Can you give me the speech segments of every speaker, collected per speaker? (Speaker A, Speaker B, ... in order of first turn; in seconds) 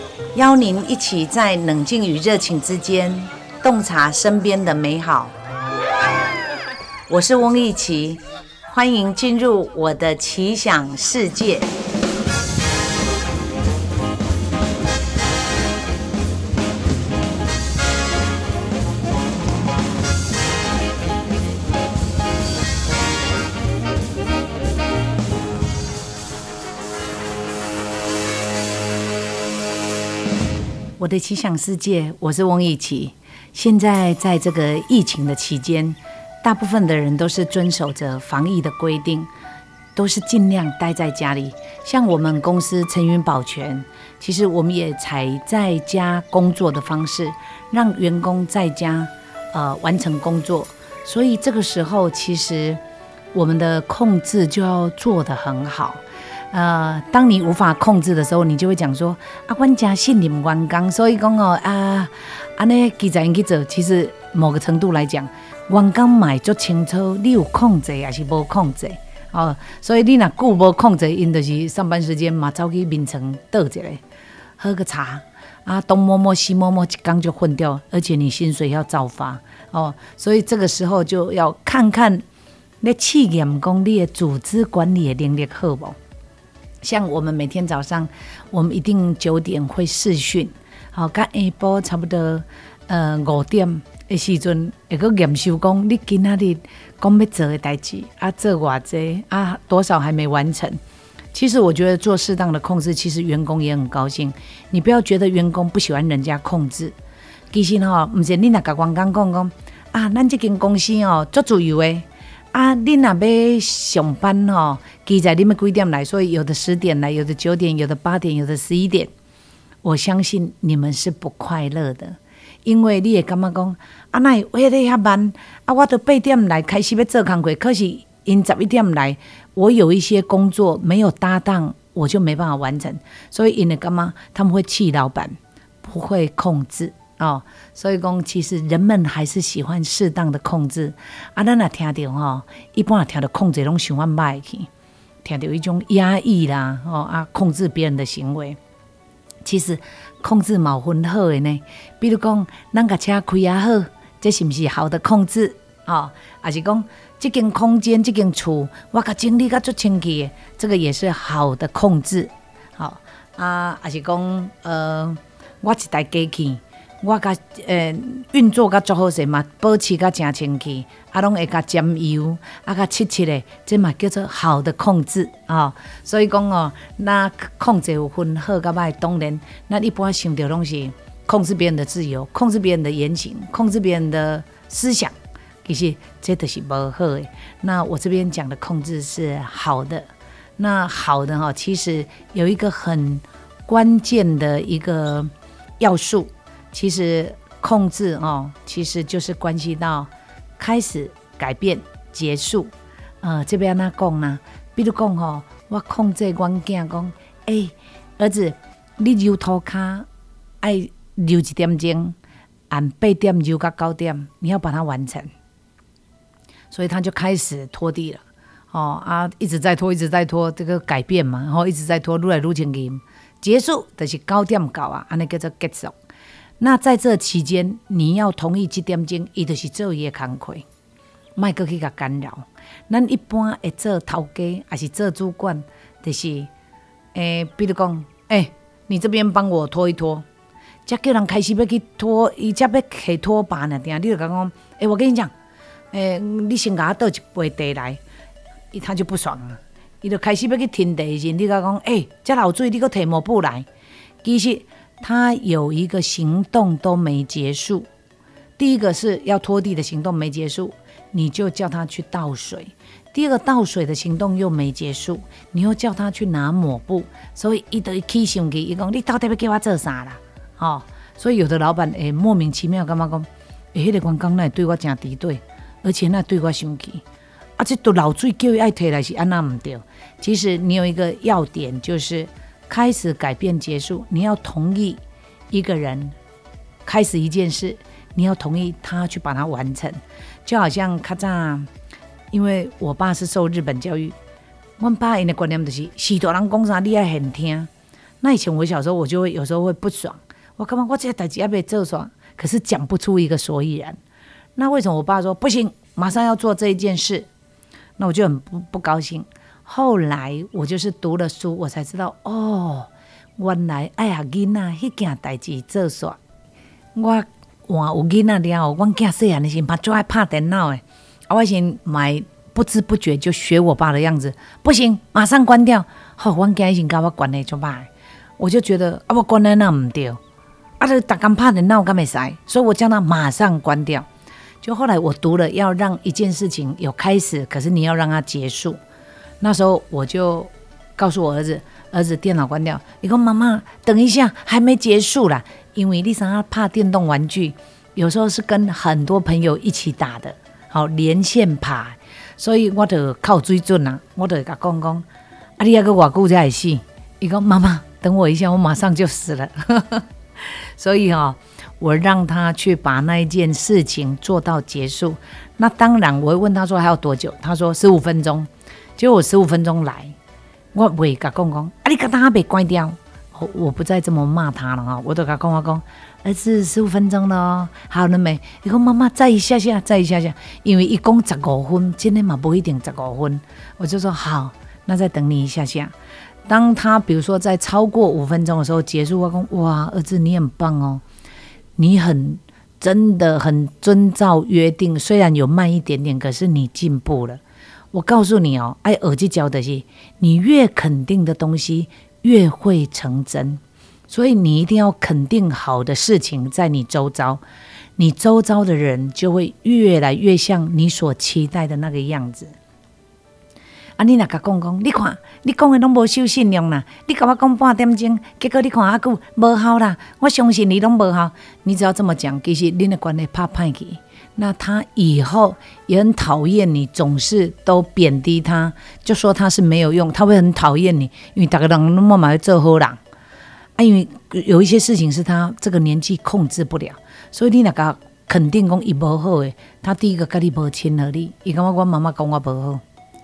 Speaker A: 0.3-5.3, 7.1-11.7, 31.0-39.3, 40.0-52.8, 53.3-74.0, 74.6-82.2, 82.8-86.0, 86.8-100.8, 101.3-107.0, 107.5-119.1, 119.8-144.7, 145.2-148.6, 149.4-185.1, 185.7-210.1, 210.6-212.2, 212.7-215.3, 216.7-225.9, 226.6-230.7, 231.4-236.5, 237.1-240.3, 240.9-245.3, 245.9-248.0, 248.7-253.7, 254.2-257.9, 258.6-277.0, 277.6-285.0, 285.5-286.2, 286.9-291.7, 292.3-294.2, 294.8-297.7, 298.2-304.0, 304.6-307.3, 308.0-316.2, 316.9-330.2, 330.8-334.1, 334.6-338.8, 339.4-355.1, 355.6-370.1, 370.7-385.9, 386.5-391.0, 391.8-397.4, 397.9-407.4, 408.0-412.6, 414.0-433.0, 433.8-442.8